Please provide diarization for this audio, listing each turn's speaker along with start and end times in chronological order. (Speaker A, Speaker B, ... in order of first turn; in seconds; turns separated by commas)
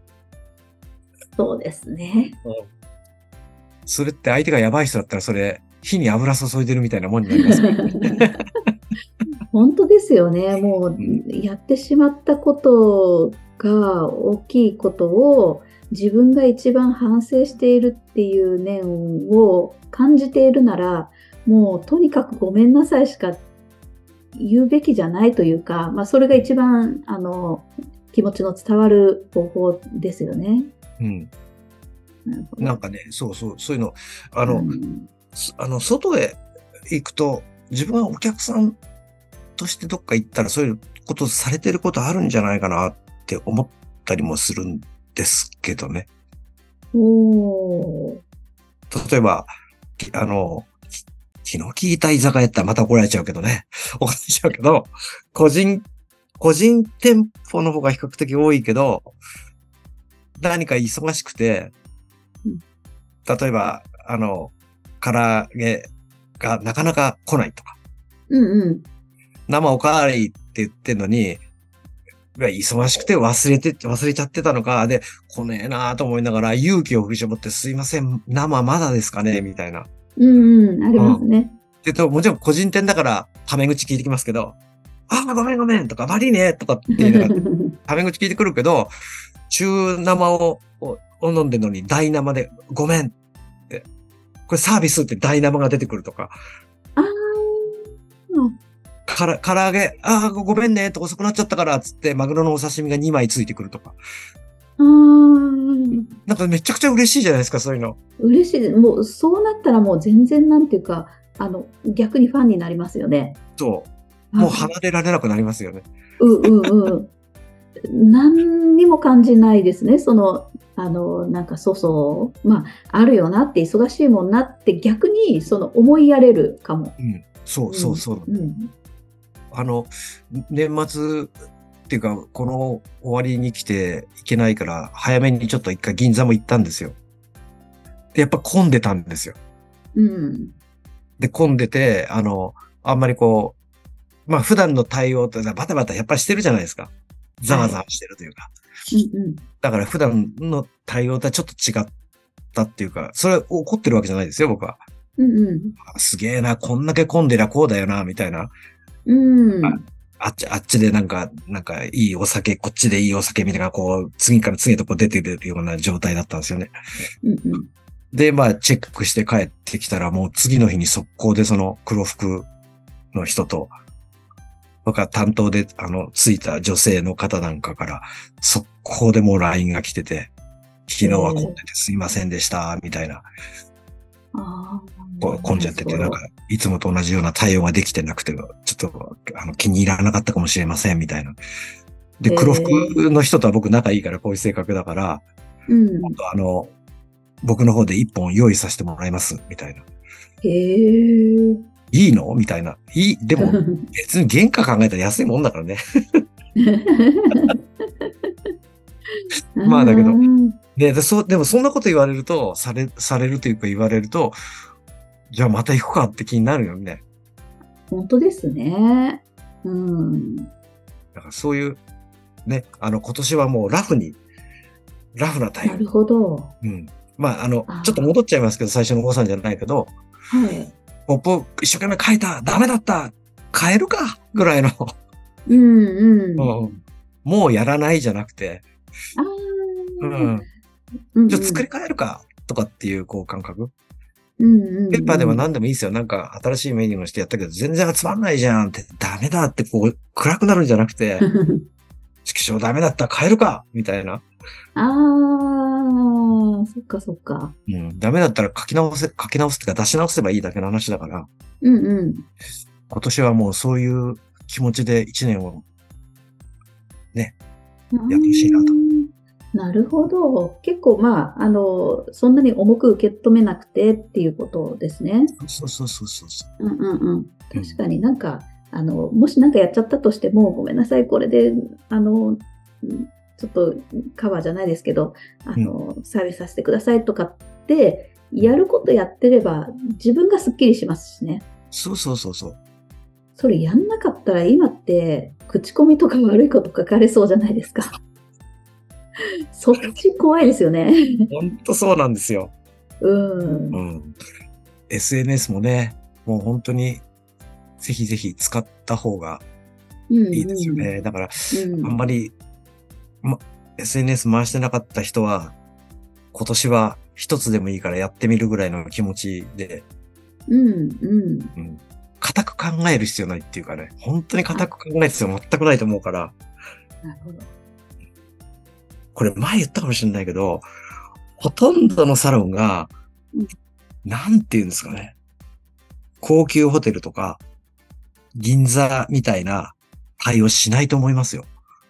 Speaker A: 1.4-2.4, Speaker B: 3.9-8.4, Speaker A: 7.3-8.4, Speaker A: 9.5-23.4, Speaker A: 24.3-30.7, Speaker B: 31.0-31.3, Speaker A: 32.2-32.8, Speaker B: 32.6-34.7, Speaker A: 34.5-35.1, Speaker B: 35.3-38.8, Speaker B: 39.6-46.1, Speaker A: 46.9-48.2, Speaker B: 48.9-50.7, Speaker B: 51.4-55.8, Speaker B: 56.4-59.1, Speaker B: 60.4-61.7, Speaker B: 63.2-67.8, Speaker A: 68.3-68.8, Speaker B: 69.5-71.4, Speaker B: 72.3-79.9, Speaker A: 80.2-81.5, Speaker B: 81.0-81.2, Speaker B: 81.8-84.5, Speaker B: 85.1-88.9, Speaker A: 86.9-87.8, Speaker B: 89.5-93.1, Speaker B: 94.5-96.3, Speaker A: 97.0-98.5, Speaker B: 99.1-104.0, Speaker A: 104.8-106.1, Speaker B: 106.2-108.0, Speaker A: 108.2-113.4, Speaker B: 113.6-115.8, Speaker A: 114.3-114.7, Speaker A: 116.2-117.1, Speaker A: 117.9-126.9, Speaker B: 127.0-128.3, Speaker A: 127.7-128.7, Speaker B: 129.5-131.3, Speaker B: 131.9-136.9, Speaker B: 138.1-139.4, Speaker A: 139.9-140.6, Speaker B: 141.2-143.6, Speaker B: 144.3-148.5, Speaker A: 147.5-147.8, Speaker A: 148.9-149.4, Speaker B: 149.6-151.9, Speaker B: 152.5-154.8, Speaker A: 155.2-155.8, Speaker B: 155.8-158.5, Speaker A: 159.1-159.8, Speaker B: 159.6-166.7, Speaker A: 167.2-167.7, Speaker B: 168.1-172.5, Speaker B: 173.1-173.7, Speaker B: 174.8-180.3, Speaker B: 180.9-183.2, Speaker A: 181.0-181.6, Speaker A: 184.3-186.2, Speaker B: 185.2-191.4, Speaker B: 192.2-195.2, Speaker A: 192.3-192.9, Speaker A: 195.7-196.2, Speaker B: 196.0-196.7, Speaker B: 197.4-199.8, Speaker A: 200.4-201.6, Speaker B: 201.9-206.2, Speaker A: 203.4-203.9, Speaker A: 206.6-208.3, Speaker A: 209.1-210.6, Speaker B: 209.6-210.2, Speaker B: 210.8-214.3, Speaker B: 215.3-217.0, Speaker A: 217.9-220.5, Speaker B: 221.1-221.8, Speaker B: 222.4-224.2, Speaker B: 225.1-225.8, Speaker A: 225.6-226.5, Speaker B: 226.6-229.9, Speaker A: 227.7-228.1, Speaker A: 230.3-230.7, Speaker B: 231.1-234.9, Speaker A: 235.5-236.5, Speaker B: 236.4-238.6, Speaker A: 239.2-240.4, Speaker B: 240.0-240.4, Speaker A: 241.1-241.6, Speaker B: 241.3-243.7, Speaker A: 244.4-245.4, Speaker B: 244.9-251.2, Speaker A: 251.2-251.6, Speaker B: 252.2-254.2, Speaker A: 254.7-257.5, Speaker B: 257.7-261.3, Speaker A: 261.6-262.3, Speaker B: 262.9-265.6, Speaker A: 267.9-275.4, Speaker B: 268.1-268.7, Speaker B: 275.4-276.5, Speaker A: 276.6-291.4, Speaker B: 277.5-277.8, Speaker B: 291.7-292.6, Speaker A: 293.4-297.9, Speaker A: 299.5-301.3, Speaker B: 301.3-302.5, Speaker A: 303.0-303.8, Speaker B: 303.7-304.2, Speaker B: 304.9-307.0, Speaker B: 307.8-309.4, Speaker A: 310.1-310.9, Speaker B: 310.3-312.3, Speaker A: 311.5-312.0, Speaker B: 313.2-315.5, Speaker B: 316.3-319.8, Speaker A: 320.5-321.5, Speaker B: 321.6-326.4, Speaker A: 327.0-327.5, Speaker B: 329.1-330.6, Speaker B: 331.4-332.9, Speaker B: 334.0-335.1, Speaker B: 336.2-337.4, Speaker B: 338.4-341.5